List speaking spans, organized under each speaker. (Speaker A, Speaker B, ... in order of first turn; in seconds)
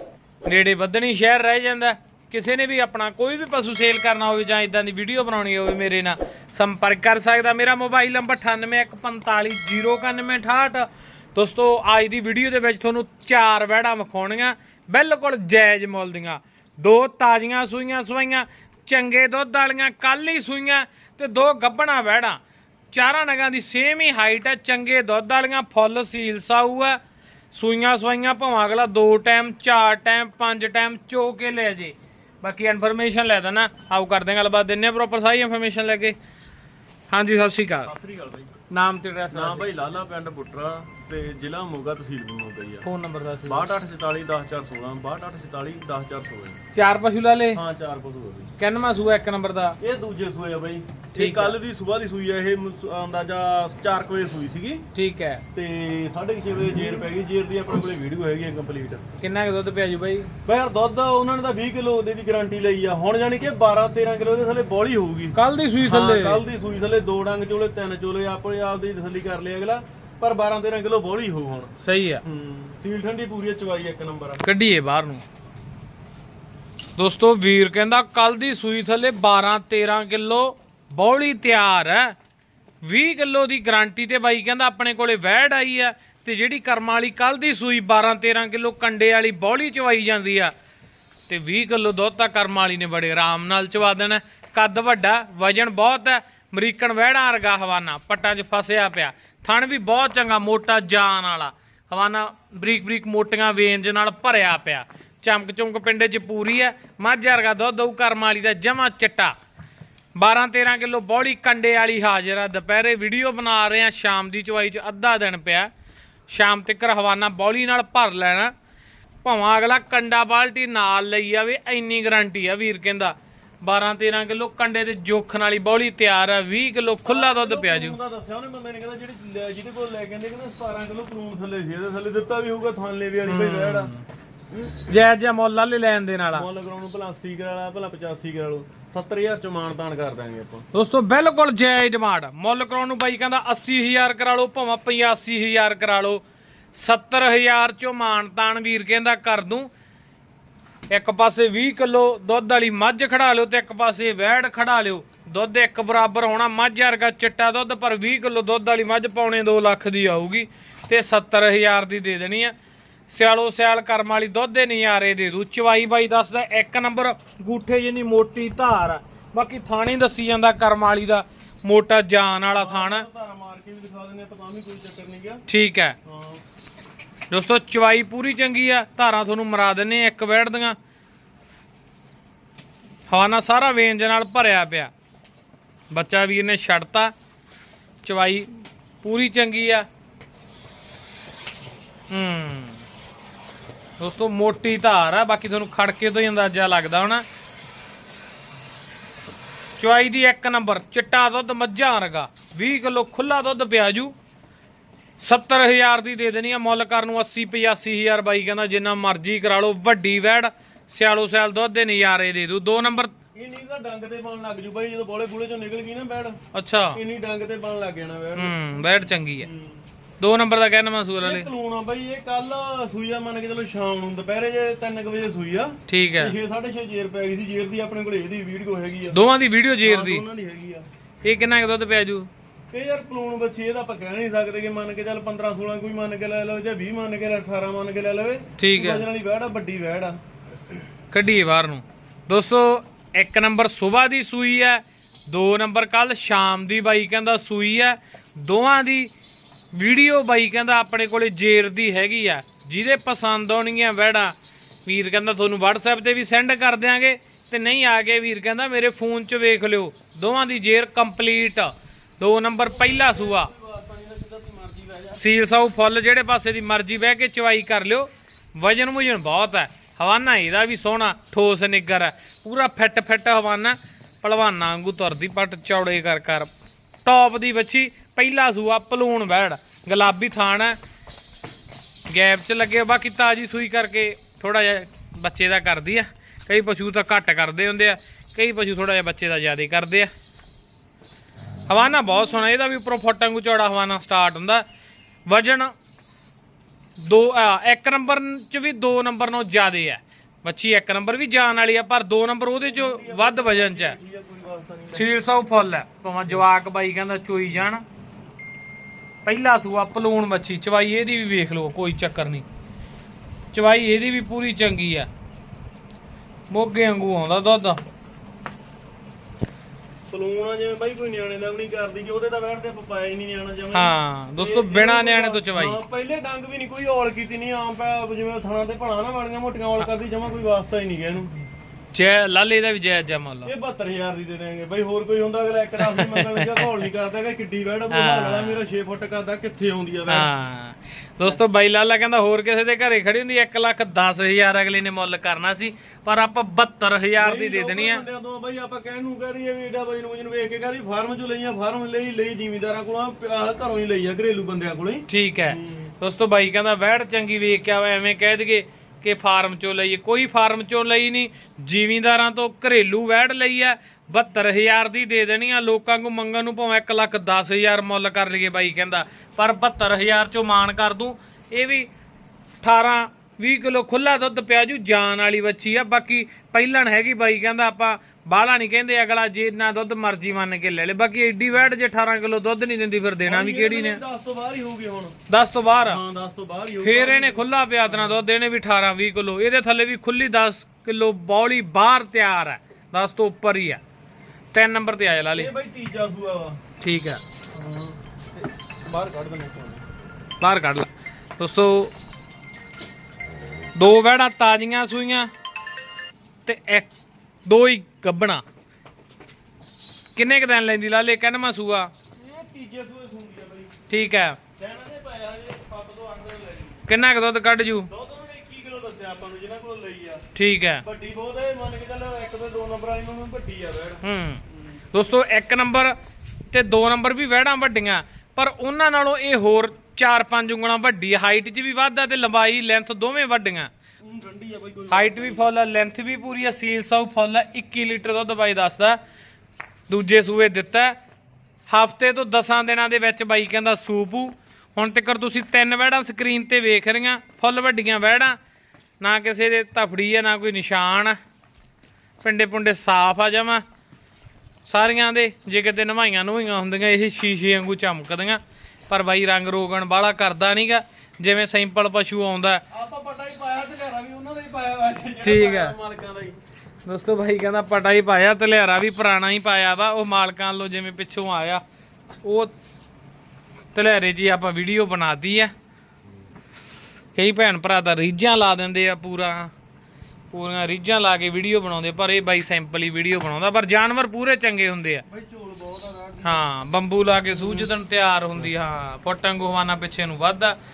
Speaker A: 0.5-22.4, 22.9-27.0, 27.5-36.2, 37.1-37.9, 38.7-39.7, 42.8-43.7, 46.7-47.6, 48.6-49.8, 51.1-51.6, 55.0-55.4, 59.2-60.3, 65.4-66.4, 71.8-72.2, 74.4-75.2, 77.0-82.2, 82.8-90.5, 91.3-109.3, 110.2-115.7, 116.3-118.5, 119.2-128.0, 133.3-134.1, 134.9-136.5, 140.7-146.2, 146.7-149.7, 150.9-162.5, 163.1-173.1, 175.5-176.0, 177.3-180.8, 183.1-184.9, 185.9-187.1, 188.0-188.5, 189.0-189.9, 192.1-192.8, 194.0-197.2, 199.8-204.1, 205.2-213.1, 216.5-217.0, 218.4-219.5, 220.2-221.5, 225.9-226.3, 229.1-230.2, 231.2-232.3, 238.6-239.1, 241.1-249.1, 249.7-254.3, 254.9-263.5, 265.2-276.5, 277.1-280.8, 282.1-290.1, 291.7-294.6, 295.3-295.7, 297.0-304.0, 304.9-307.8, 309.2-312.4, 313.5-315.1, 316.5-317.8, 323.7-325.8, 331.9-333.5, 335.9-336.7, 337.9-338.6, 340.1-348.0, 355.1-371.9, 372.6-384.0, 385.3-386.0, 386.8-393.8, 394.5-395.5, 396.8-397.2, 400.4-401.9, 403.8-405.3, 406.5-406.9, 407.5-408.4, 410.2-411.9, 413.9-414.4, 416.9-417.9, 420.3-420.8, 424.0-424.4, 424.9-425.9, 426.5-433.7, 434.9-439.0, 439.9-440.9, 441.7-448.4, 449.0-451.2, 452.2-453.6, 454.6-462.6, 465.2-465.8, 466.9-471.6, 472.2-472.5, 473.7-475.5, 477.1-479.5, 480.3-485.0, 486.2-490.6
Speaker B: 37.8-38.6, 39.3-42.9, 43.5-46.6, 47.5-48.5, 49.8-54.8, 55.5-59.0, 60.5-71.7, 72.2-74.4, 127.0-133.9, 136.3-140.7, 172.6-175.4, 176.1-176.4, 213.3-216.4, 216.9-219.8, 221.2-229.2, 229.8-230.9, 232.7-240.2, 262.6-265.2, 302.6-305.1, 320.1-331.3, 333.4-340.3, 347.2-355.9, 383.3-385.1, 385.9-388.2, 395.4-396.6, 397.5-399.8, 412.2-413.7, 414.6-416.8, 417.9-420.2, 420.8-424.0, 434.0-435.5, 462.7-466.4, 485.1-486.4, 487.3-487.7